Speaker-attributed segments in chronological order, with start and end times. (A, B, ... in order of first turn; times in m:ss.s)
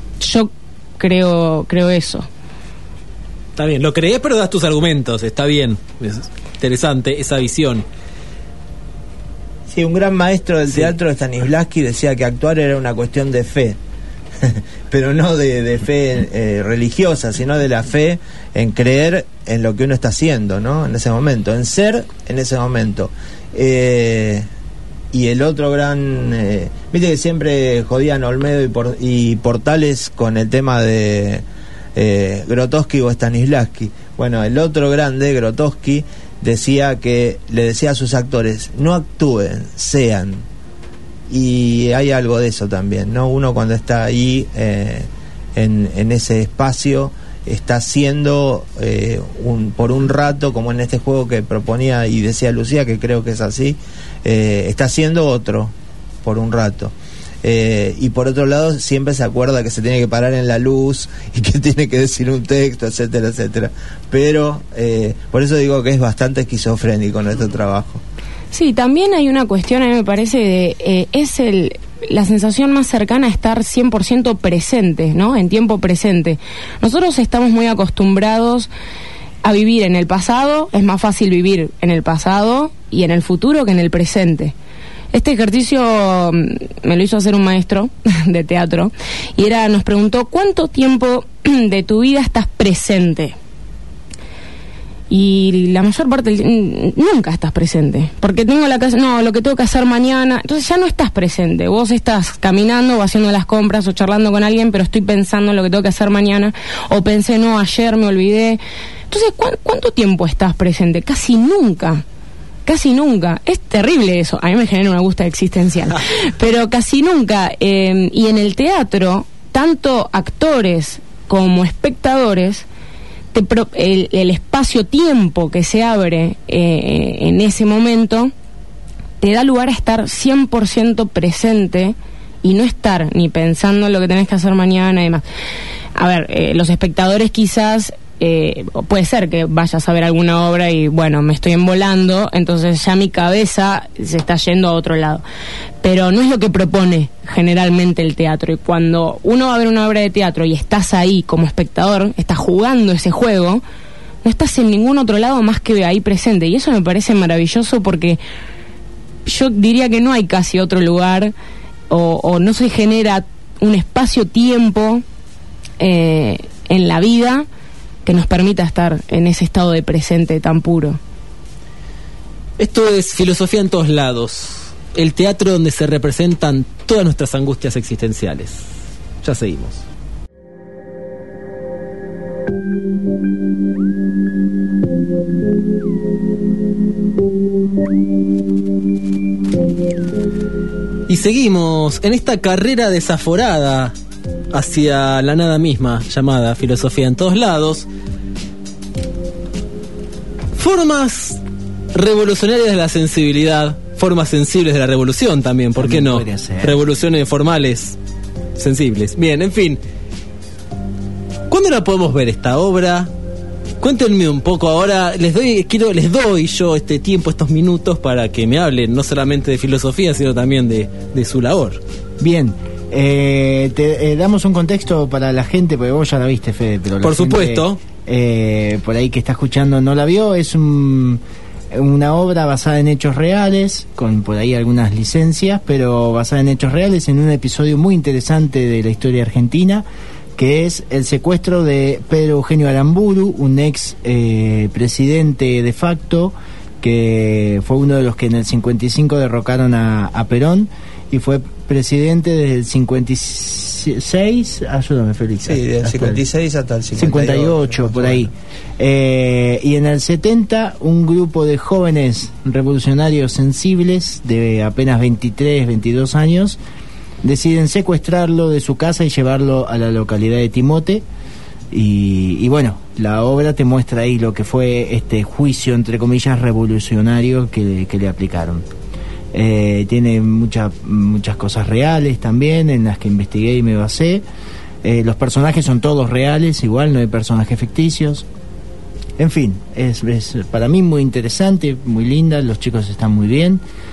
0:00.2-0:02.3 A
0:03.6-0:07.8 B
0:09.7-0:13.8 C
0:14.4-0:24.4 C
0:25.1-0:31.4 C
0:31.9-0:40.4 C
0:41.3-0:55.7 C
0:56.2-1:08.0 C
1:08.5-1:18.7 A
1:19.4-1:24.5 A
1:25.1-1:33.4 A
1:35.1-1:52.0 A
1:52.6-2:02.6 A
2:03.3-2:08.3 A
2:09.2-2:15.2 A
2:15.9-2:25.2 A
2:25.8-2:33.6 A
2:34.2-2:38.2 A
2:39.2-2:41.3 A
2:41.9-2:45.0 A
2:45.8-2:47.4 A
2:48.0-2:51.0 A
2:52.6-2:58.7 B
2:59.2-2:59.8 B
3:11.1-3:13.9 B
3:14.5-3:17.9 B
3:20.6-3:21.4 B
3:21.9-3:28.0 B
3:25.8-3:26.8 D
3:28.6-3:29.8 B
3:31.5-3:33.1 B
3:33.8-3:41.8 B
3:42.2-4:16.2 D
3:47.0-3:47.8 B
4:15.4-4:18.3 C
4:16.9-4:26.6 D
4:27.2-4:31.0 D
4:31.7-4:38.6 D
4:39.3-4:44.2 D
4:44.8-4:48.2 D
4:49.2-4:53.6 D